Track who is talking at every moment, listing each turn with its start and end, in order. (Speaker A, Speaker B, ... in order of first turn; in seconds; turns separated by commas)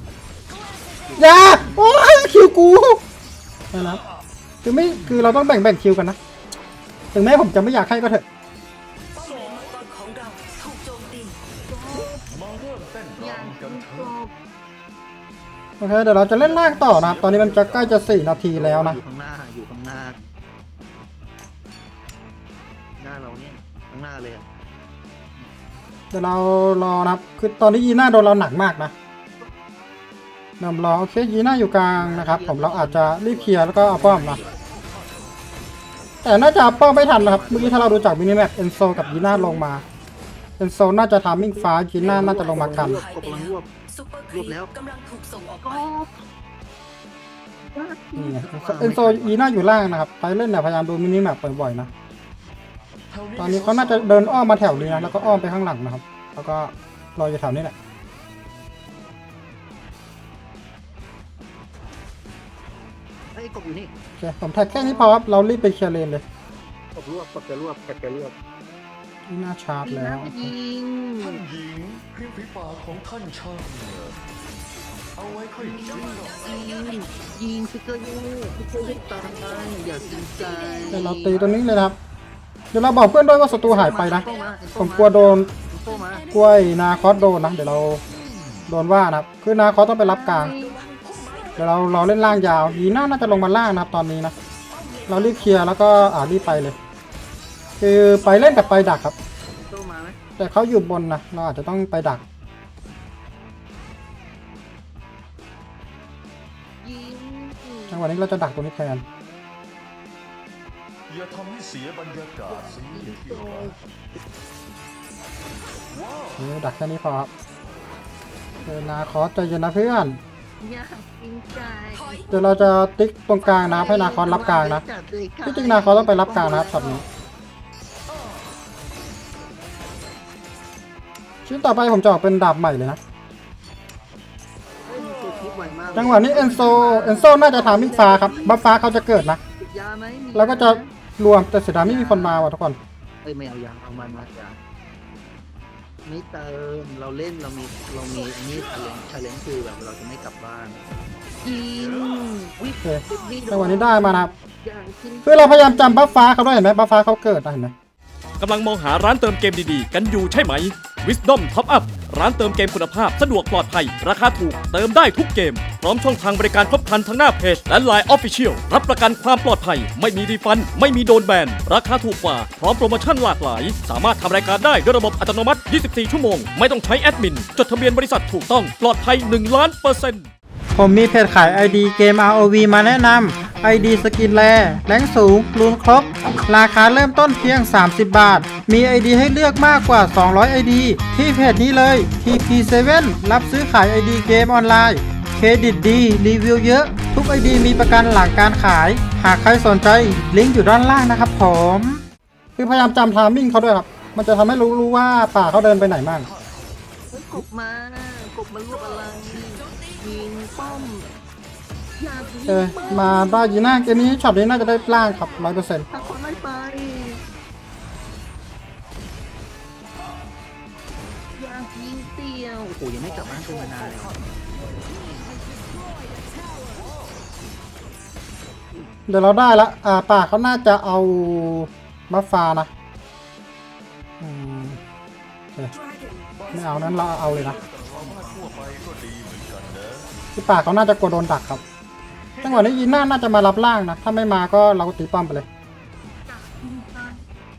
Speaker A: 0.9-2.1, Speaker B: 1.1-3.0, Speaker B: 3.7-4.0, Speaker B: 4.6-6.2, Speaker B: 7.1-8.2, Speaker C: 9.1-11.4, Speaker A: 11.7-12.2, Speaker D: 12.1-14.1, Speaker A: 13.2-14.3, Speaker B: 15.8-19.0, Speaker D: 16.3-18.3, Speaker A: 18.5-20.3, Speaker A: 23.0-24.5, Speaker B: 26.1-28.9, Speaker B: 30.6-34.4, Speaker A: 31.9-34.6, Speaker D: 34.3-35.2, Speaker B: 36.2-39.8, Speaker A: 37.0-37.9, Speaker D: 39.0-39.3, Speaker A: 39.3-39.6, Speaker B: 40.6-43.0, Speaker A: 41.3-43.7, Speaker C: 42.5-45.9, Speaker A: 44.3-44.7, Speaker A: 45.5-46.2, Speaker A: 47.7-49.4, Speaker B: 48.1-51.9, Speaker D: 53.1-55.6, Speaker B: 53.4-57.7, Speaker A: 63.3-63.9, Speaker B: 64.2-66.2, Speaker A: 64.7-65.2, Speaker A: 66.9-68.3, Speaker B: 69.3-70.5, Speaker A: 69.8-71.4, Speaker D: 71.2-74.2, Speaker D: 75.2-76.5, Speaker A: 75.6-81.7, Speaker C: 75.8-77.2, Speaker C: 79.0-81.1, Speaker B: 80.9-82.0, Speaker B: 82.7-85.5, Speaker A: 83.4-86.3, Speaker C: 84.1-84.6, Speaker B: 86.3-88.0, Speaker D: 88.1-88.7, Speaker B: 88.7-90.5, Speaker A: 90.0-90.8, Speaker C: 90.4-91.8, Speaker B: 91.6-94.3, Speaker D: 93.1-93.4, Speaker C: 94.7-96.8, Speaker B: 95.1-96.8, Speaker B: 97.8-99.1, Speaker C: 98.2-99.0, Speaker A: 99.7-100.2, Speaker B: 100.4-102.2, Speaker A: 106.8-108.0, Speaker B: 107.9-109.0, Speaker D: 111.1-113.8, Speaker A: 112.5-113.8, Speaker D: 115.9-116.4, Speaker B: 116.4-117.3, Speaker B: 118.7-120.2, Speaker A: 120.6-122.7, Speaker C: 121.9-122.3, Speaker B: 122.3-124.8, Speaker A: 123.4-127.0, Speaker B: 125.4-127.0, Speaker B: 131.4-133.0, Speaker A: 134.8-138.8, Speaker D: 135.8-136.7, Speaker B: 135.9-139.4, Speaker A: 139.6-140.9, Speaker B: 140.3-142.8, Speaker A: 141.7-142.5, Speaker A: 143.2-144.6, Speaker A: 146.0-150.8, Speaker A: 151.4-156.2, Speaker B: 152.8-154.3, Speaker B: 155.2-157.7, Speaker E: 158.4-180.3, Speaker B: 180.8-202.0, Speaker B: 202.6-206.3, Speaker D: 205.4-206.7, Speaker A: 207.1-211.1, Speaker C: 208.9-210.1, Speaker A: 212.0-214.2, Speaker B: 212.4-215.9, Speaker A: 215.9-217.2, Speaker D: 215.9-216.3, Speaker A: 221.3-224.2, Speaker D: 223.1-224.2, Speaker B: 229.1-232.7, Speaker B: 234.2-234.8, Speaker C: 235.7-236.3, Speaker D: 236.3-240.1, Speaker B: 236.5-237.6, Speaker A: 237.5-238.8, Speaker B: 240.3-241.6, Speaker D: 242.4-242.9, Speaker B: 242.4-245.5, Speaker A: 246.2-247.2